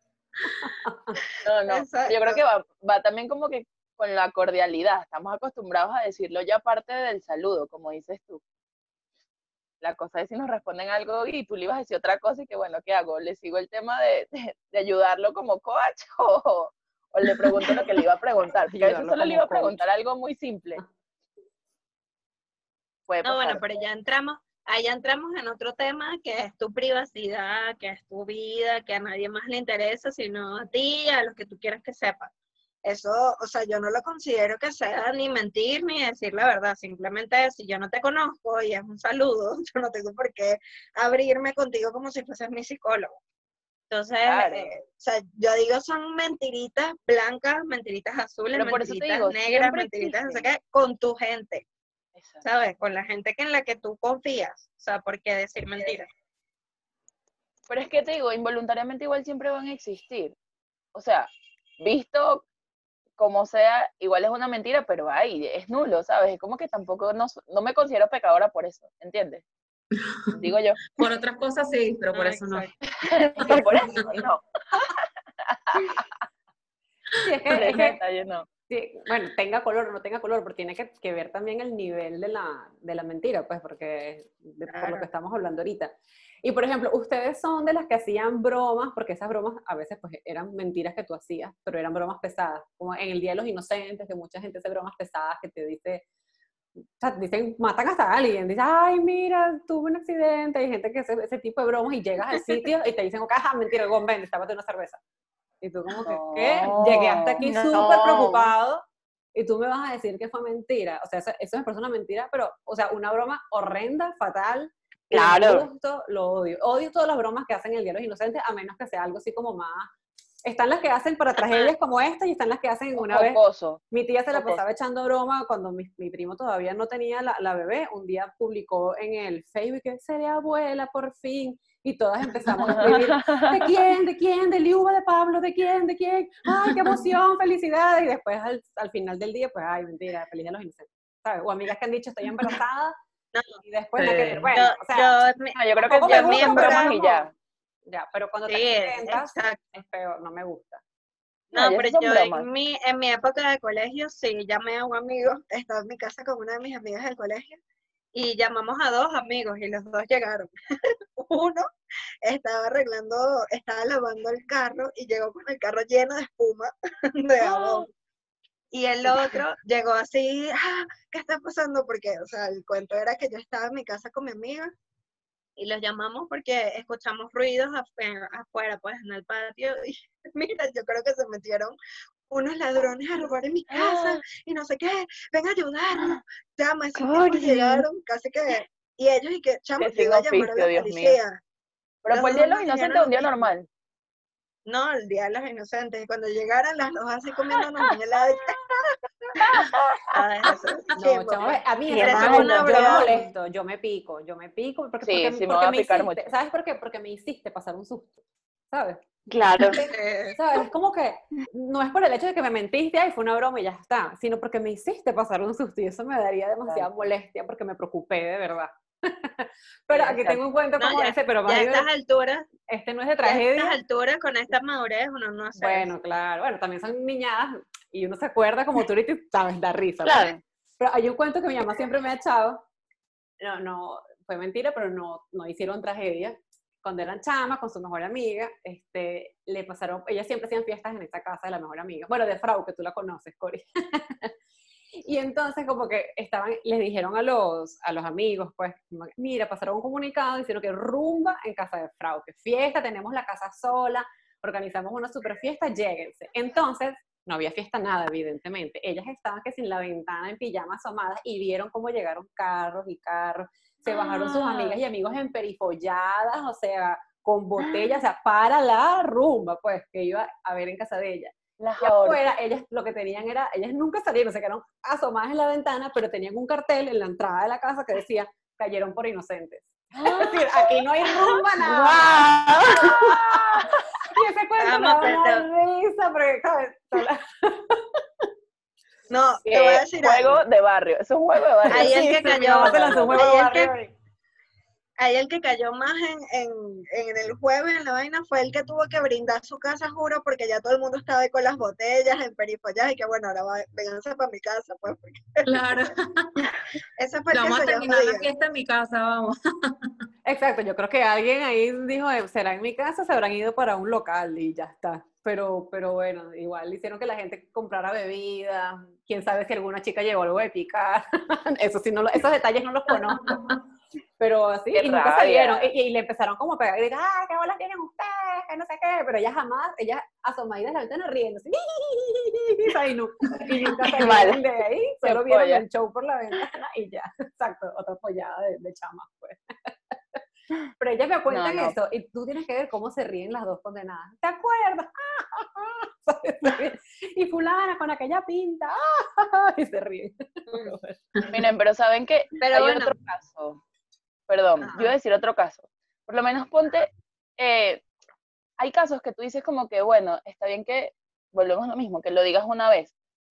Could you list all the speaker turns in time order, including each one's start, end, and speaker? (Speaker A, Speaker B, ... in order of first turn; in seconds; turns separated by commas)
Speaker A: 0.7-1.1, Speaker B: 1.4-8.4, Speaker C: 1.7-2.4, Speaker B: 9.8-20.8, Speaker A: 18.8-19.9, Speaker B: 23.1-23.6, Speaker C: 23.2-32.3, Speaker C: 32.9-43.2, Speaker C: 43.9-51.6, Speaker B: 44.2-44.7, Speaker B: 48.5-50.5, Speaker B: 52.2-52.5, Speaker C: 52.4-56.1, Speaker B: 57.7-60.4, Speaker B: 60.9-61.3, Speaker B: 61.8-62.5, Speaker B: 63.2-69.5, Speaker B: 70.3-70.8, Speaker D: 70.9-72.7, Speaker C: 72.1-72.7, Speaker B: 73.0-76.2, Speaker E: 73.2-73.9, Speaker D: 73.5-74.2, Speaker A: 77.2-78.0, Speaker B: 77.5-78.5, Speaker A: 78.7-96.0, Speaker C: 84.7-85.0, Speaker A: 97.0-105.0, Speaker A: 105.6-108.8, Speaker B: 106.0-107.4, Speaker E: 107.4-108.5, Speaker A: 109.3-119.9, Speaker E: 115.1-115.7, Speaker A: 120.4-143.0, Speaker B: 123.0-123.8, Speaker B: 124.3-124.6, Speaker B: 132.6-133.7, Speaker C: 143.3-143.6, Speaker A: 143.6-145.2, Speaker B: 144.0-144.5, Speaker C: 144.5-147.0, Speaker B: 145.6-147.3, Speaker A: 145.9-147.3, Speaker A: 147.9-150.8, Speaker C: 148.5-149.6, Speaker B: 151.5-152.5, Speaker C: 151.5-157.6, Speaker C: 158.1-160.5, Speaker C: 161.2-161.7, Speaker C: 162.2-167.9, Speaker B: 167.5-167.8, Speaker C: 168.7-174.7, Speaker C: 175.6-181.8, Speaker C: 182.3-191.4, Speaker B: 183.7-184.2, Speaker E: 187.0-187.9, Speaker B: 189.8-191.2, Speaker B: 192.1-193.7, Speaker C: 192.1-193.5, Speaker C: 194.7-198.7, Speaker B: 197.9-198.6, Speaker B: 199.4-200.5, Speaker C: 200.1-203.3, Speaker A: 201.0-208.2, Speaker E: 201.9-203.0, Speaker B: 205.0-206.3, Speaker A: 208.7-209.0, Speaker E: 209.3-209.8, Speaker C: 209.8-210.4, Speaker A: 210.3-221.9, Speaker B: 219.9-220.4, Speaker C: 220.8-222.5, Speaker A: 222.7-223.8, Speaker C: 223.2-225.9, Speaker A: 225.6-232.6, Speaker E: 230.1-230.4, Speaker A: 233.4-244.3, Speaker A: 245.0-283.5, Speaker B: 271.6-272.2, Speaker B: 280.0-281.5, Speaker E: 281.6-283.0, Speaker B: 282.8-283.7, Speaker A: 284.1-288.2, Speaker C: 284.6-285.5, Speaker C: 289.1-290.4, Speaker B: 289.4-293.2, Speaker A: 291.7-293.9, Speaker C: 291.7-293.7, Speaker C: 295.0-305.7, Speaker D: 305.5-306.5, Speaker C: 307.0-308.3, Speaker D: 307.3-309.7, Speaker A: 310.2-323.4, Speaker A: 324.2-340.2, Speaker B: 324.7-325.7, Speaker E: 333.9-334.4, Speaker B: 335.0-335.6, Speaker A: 340.8-351.0, Speaker B: 341.3-341.8, Speaker B: 351.3-353.6, Speaker C: 352.4-352.9, Speaker B: 354.3-357.8, Speaker C: 354.6-354.9, Speaker B: 358.6-362.9